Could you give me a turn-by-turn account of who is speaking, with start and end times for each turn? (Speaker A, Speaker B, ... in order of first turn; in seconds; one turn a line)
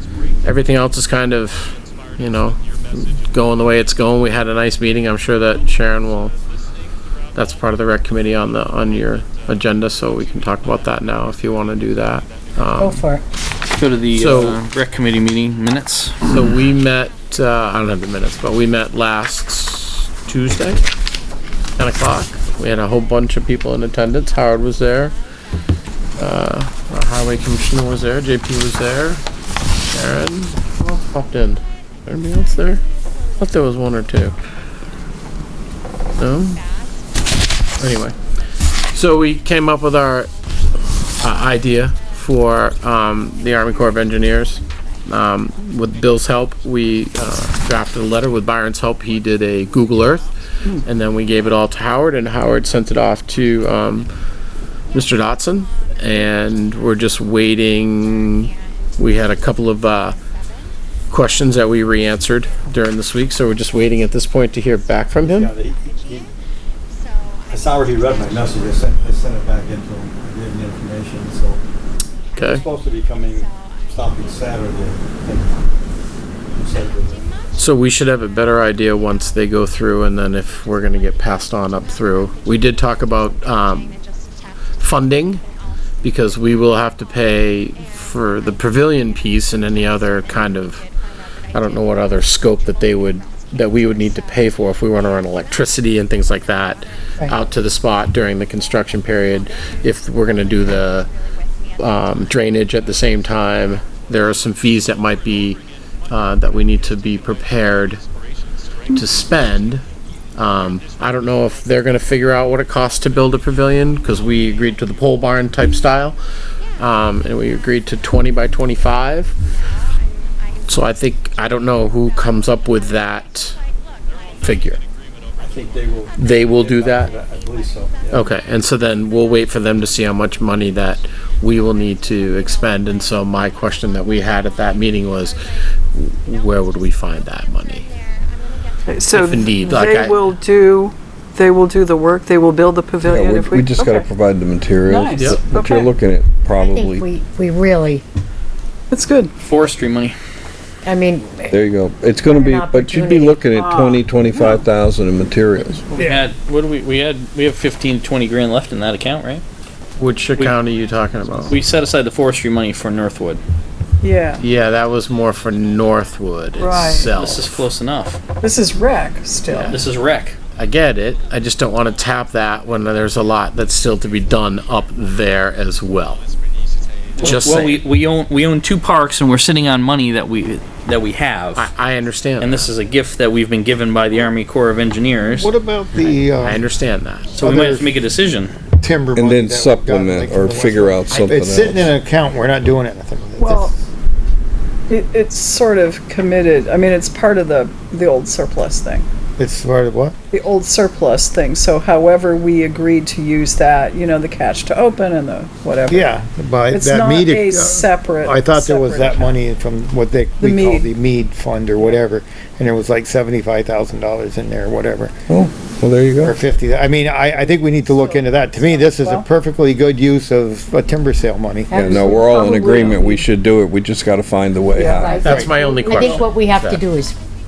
Speaker A: 0.4-6.3
Speaker A: 7.3-13.0
Speaker B: 12.8-13.2
Speaker C: 13.7-16.3
Speaker A: 14.1-14.6
Speaker A: 16.2-20.8
Speaker A: 21.8-25.1
Speaker A: 26.2-29.2
Speaker A: 29.9-32.8
Speaker A: 33.4-34.4
Speaker A: 36.2-36.6
Speaker A: 37.8-38.1
Speaker A: 38.9-40.3
Speaker A: 41.2-50.3
Speaker A: 50.8-54.1
Speaker A: 54.9-60.1
Speaker A: 61.1-65.5
Speaker D: 65.2-65.7
Speaker E: 67.5-71.4
Speaker D: 68.6-71.5
Speaker A: 72.3-72.6
Speaker E: 72.4-73.3
Speaker D: 72.9-73.4
Speaker E: 73.9-75.6
Speaker D: 76.6-77.3
Speaker E: 76.7-77.3
Speaker A: 77.6-84.0
Speaker A: 84.8-85.4
Speaker A: 86.0-90.8
Speaker A: 91.5-101.1
Speaker A: 101.8-105.6
Speaker A: 106.1-108.0
Speaker A: 108.9-109.8
Speaker A: 110.3-116.2
Speaker A: 116.8-119.3
Speaker A: 120.7-123.5
Speaker A: 124.4-124.8
Speaker E: 125.4-128.3
Speaker A: 126.2-127.1
Speaker A: 128.1-135.3
Speaker A: 135.9-137.9
Speaker F: 138.8-144.1
Speaker A: 139.1-140.2
Speaker G: 143.0-147.1
Speaker F: 144.8-145.9
Speaker A: 145.1-145.4
Speaker B: 146.5-148.0
Speaker F: 148.9-149.3
Speaker C: 149.4-150.1
Speaker B: 150.8-151.4
Speaker G: 151.4-155.9
Speaker B: 152.2-153.5
Speaker F: 153.5-154.6
Speaker D: 155.9-156.2
Speaker C: 156.0-159.4
Speaker A: 160.0-161.5
Speaker C: 161.5-163.4
Speaker F: 164.0-164.4
Speaker A: 164.4-167.7
Speaker F: 166.6-167.1
Speaker C: 167.1-168.2
Speaker F: 168.4-169.8
Speaker A: 169.5-169.8
Speaker C: 169.7-170.4
Speaker A: 170.6-176.2
Speaker C: 177.2-181.7
Speaker A: 177.2-177.8
Speaker A: 181.5-182.7
Speaker C: 182.4-185.5
Speaker D: 185.3-186.6
Speaker A: 186.1-187.3
Speaker C: 187.3-188.5
Speaker D: 187.4-187.9
Speaker D: 188.8-193.8
Speaker G: 189.1-191.9
Speaker F: 193.4-193.7
Speaker F: 194.9-199.1
Speaker D: 199.4-200.1
Speaker F: 200.3-206.2
Speaker D: 205.8-215.2
Speaker F: 206.7-209.4
Speaker F: 210.4-210.9
Speaker G: 215.3-216.4
Speaker D: 216.2-221.9
Speaker F: 217.9-219.3
Speaker B: 221.7-223.3
Speaker G: 221.7-225.3
Speaker F: 224.7-226.2
Speaker B: 224.8-227.2
Speaker D: 225.2-225.5
Speaker A: 225.2-226.8